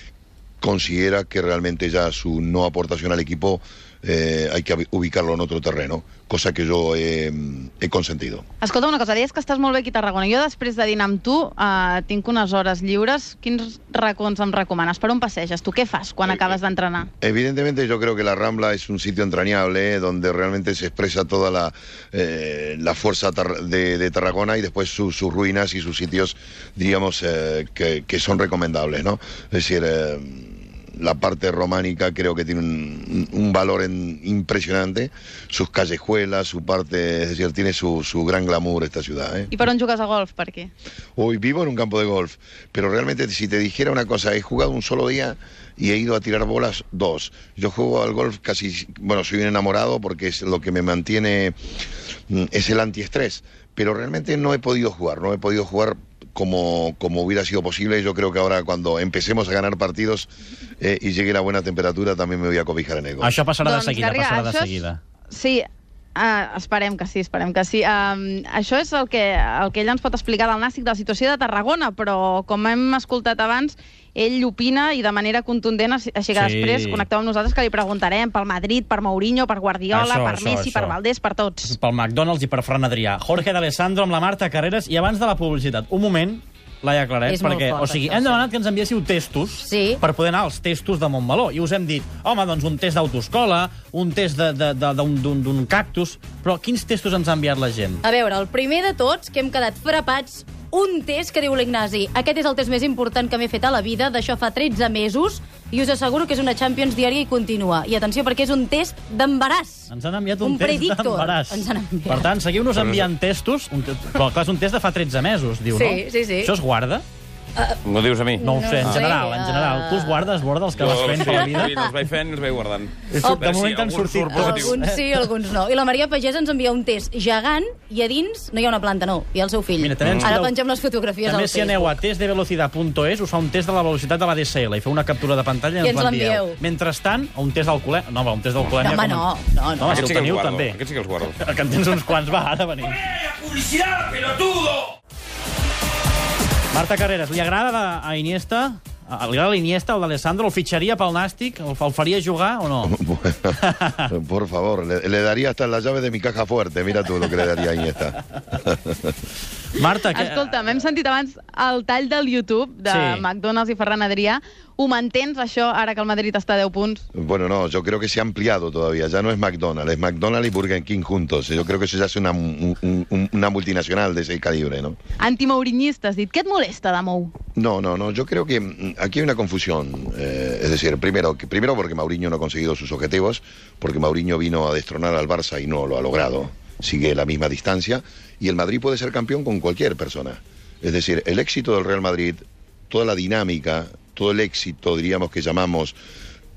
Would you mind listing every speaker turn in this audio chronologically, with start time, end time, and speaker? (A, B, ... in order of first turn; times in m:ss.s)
0:00.6-0:08.4 A
0:08.6-0:17.1 B
0:17.2-0:39.5 A
0:39.5-0:40.7 B
0:41.2-0:51.6 A
0:52.3-1:03.4 A
1:03.2-1:05.0 C
1:03.6-1:04.8 B
1:05.3-1:21.8 B
1:16.3-1:17.1 C
1:19.9-1:21.0 C
1:21.6-1:38.0 C
1:27.3-1:28.4 D
1:29.7-1:30.0 D
1:38.0-1:52.3 D
1:49.9-1:57.0 C
1:52.8-1:53.0 E
1:55.7-1:56.5 D
1:57.8-1:59.1 E
1:58.4-2:00.3 D
1:58.4-2:01.7 C
2:00.8-2:04.8 E
2:00.9-2:01.9 D
2:03.1-2:05.0 C
2:04.3-2:12.0 D
2:09.8-2:10.6 C
2:10.0-2:10.3 E
2:11.2-2:20.8 C
2:15.8-2:16.6 D
2:18.8-2:20.1 D
2:19.8-2:21.4 E
2:21.4-2:23.0 C
2:23.1-2:24.9 E
2:26.7-2:33.0 C
2:32.8-2:39.1 A
2:33.7-2:34.1 C
2:39.8-2:40.4 C
2:40.1-2:47.0 B
2:42.9-2:43.2 C
2:47.1-2:55.0 A
2:55.2-2:57.3 B
2:57.6-3:16.0 A